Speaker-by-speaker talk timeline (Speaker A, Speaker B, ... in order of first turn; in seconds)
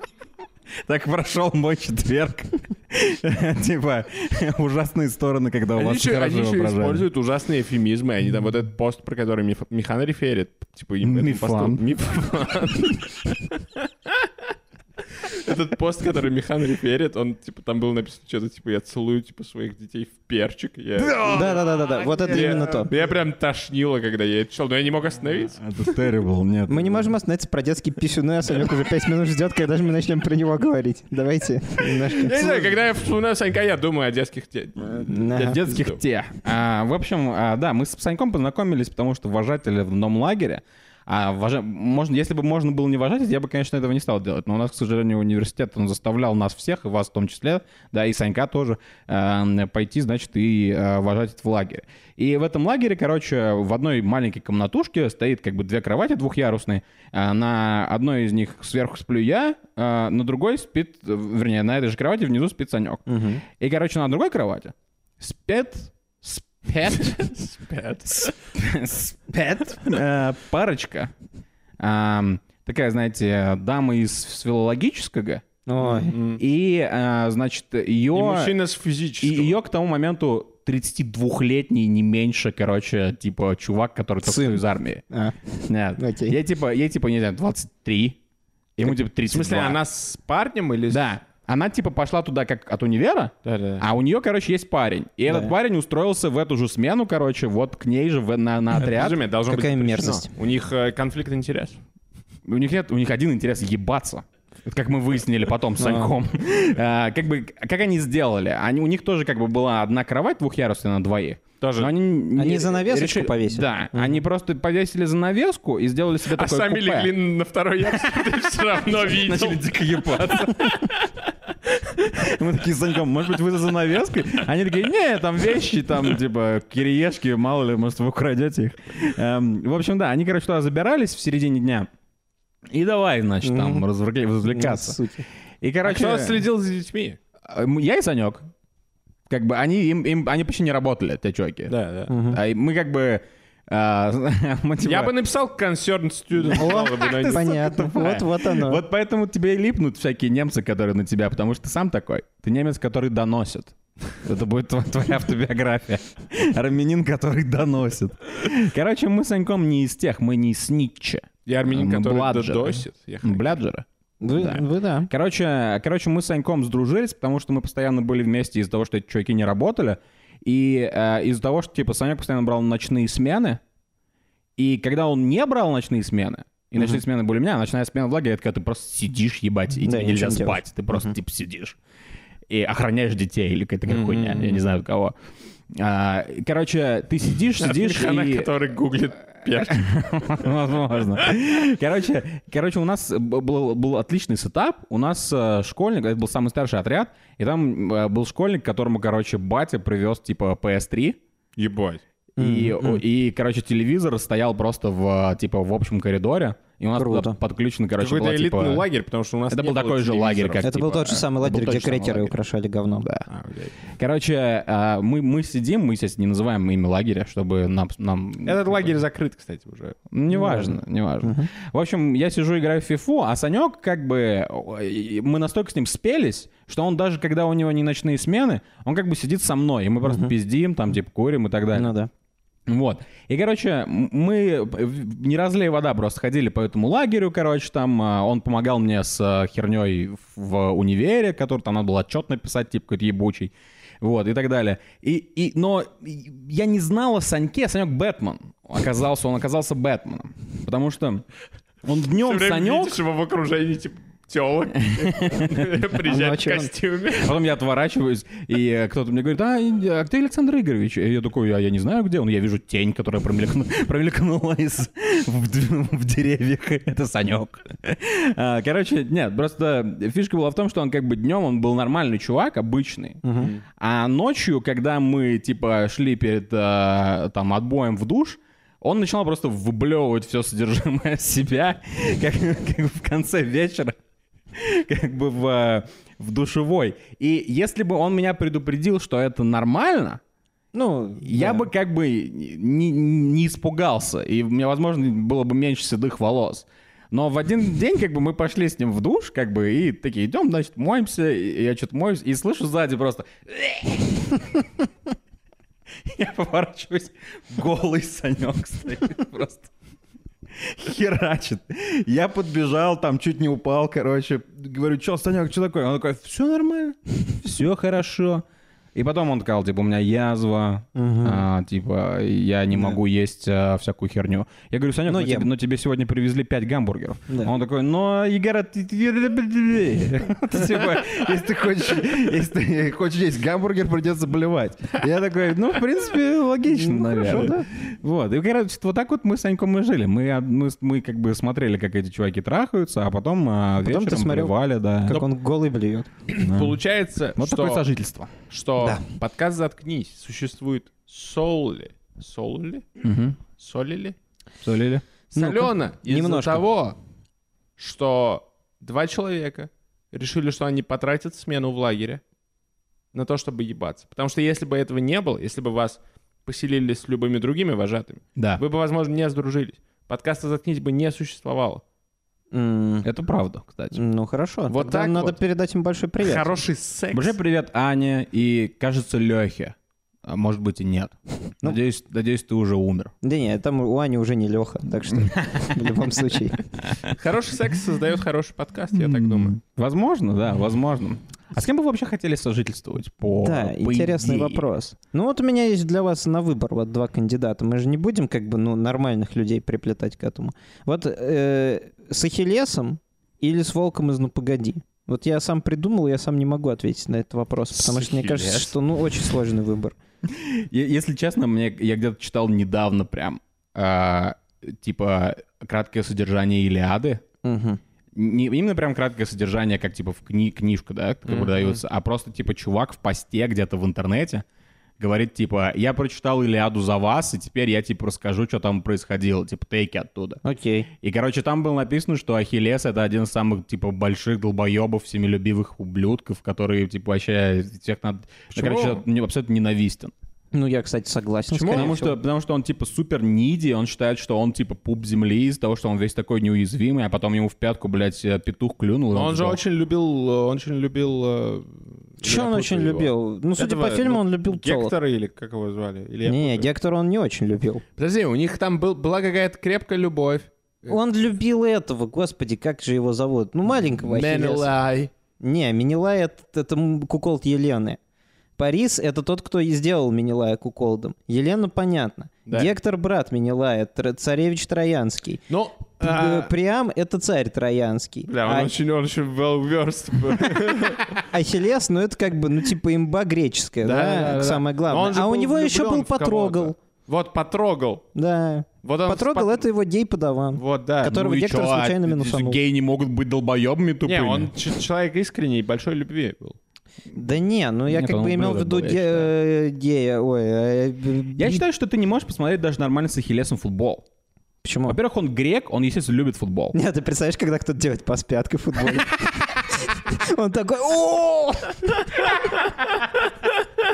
Speaker A: 0.8-7.1, 11.0-11.8, 21.0-22.9, 25.5-27.1, 35.4-67.3, 68.0-71.1, 71.8-78.6, 79.2-85.0, 85.7-88.2, 88.8-89.8, 90.9-99.2, 102.5-117.1, 119.0-121.0, 121.7-131.9, 132.7-135.0, 135.6-136.4, 137.4-138.5, 139.3-145.1, 146.6-173.6, 174.6-181.8, 182.5-185.1, 185.7-188.5, 189.6-201.2, 202.4-208.9, 209.5-212.3, 213.9-219.0, 220.1-231.9, 232.7-251.2, 251.8-253.0, 254.8-255.7, 257.1-273.2, 273.8-283.9, 284.6-290.2, 291.2-304.7, 306.1-309.7, 310.5-318.4, 318.9-345.2, 346.4-346.8, 347.4-348.3, 353.0-353.4, 354.6-355.0, 368.4-368.6, 373.0-374.0, 377.1-383.1, 385.2-385.9, 388.9-394.6, 410.2-417.2, 418.1-424.4, 425.0-430.4, 431.0-440.1, 441.6-449.6, 491.0-494.5, 497.9-499.3, 501.4-504.1, 504.9-506.8
Speaker B: 5.8-14.3, 15.2-21.6, 22.2-26.0, 31.9-36.0, 67.1-68.3, 75.8-76.4, 78.1-79.6, 89.3-91.1, 93.4-93.9, 98.8-101.8, 111.6-111.9, 116.3-120.7, 135.8-137.2, 141.7-142.1, 144.8-147.6, 161.5-163.6, 183.9-184.6, 187.6-189.9, 201.6-202.0, 208.0-210.7, 213.3-213.8, 218.4-220.0, 252.2-257.4, 346.3-347.9, 348.5-352.9, 353.6-354.2, 355.3-357.0, 357.8-362.2, 363.1-371.8, 374.7-375.4, 376.2-377.4, 387.1-389.6, 407.7-408.7, 421.3-421.8, 438.5-439.0, 441.5-442.0, 449.1-456.7, 458.0-460.9, 464.0-465.1, 475.5-476.5, 478.3-481.2, 483.8-488.1, 488.8-489.6, 490.6-491.2, 494.1-496.6
Speaker C: 21.2-22.9, 26.7-32.7, 34.9-35.6, 63.1-63.4, 75.7-76.2, 84.2-85.4, 86.0-86.4, 95.3-95.5, 99.5-100.3, 105.8-106.1, 112.4-114.2, 133.4-133.8, 134.5-135.3, 142.1-142.4, 146.5-148.8, 164.2-165.1, 179.8-181.1, 202.4-203.0, 207.0-207.3, 210.6-213.1, 220.3-221.5, 230.1-230.3, 231.7-232.1, 256.0-256.7, 273.2-273.5, 290.7-291.7, 320.9-321.4, 322.7-323.0, 325.1-325.5, 336.7-337.7, 343.8-346.1, 348.8-349.1, 355.4-356.6, 372.5-373.1, 373.9-376.5, 383.2-386.6, 393.4-409.9, 417.4-417.8, 430.4-430.9, 440.5-442.2, 452.2-454.9, 456.3-457.8, 460.9-464.7, 465.4-468.0, 468.6-475.4, 476.0-478.7, 481.3-486.7, 488.1-492.6, 497.1-501.6, 504.6-505.0, 506.7-512.0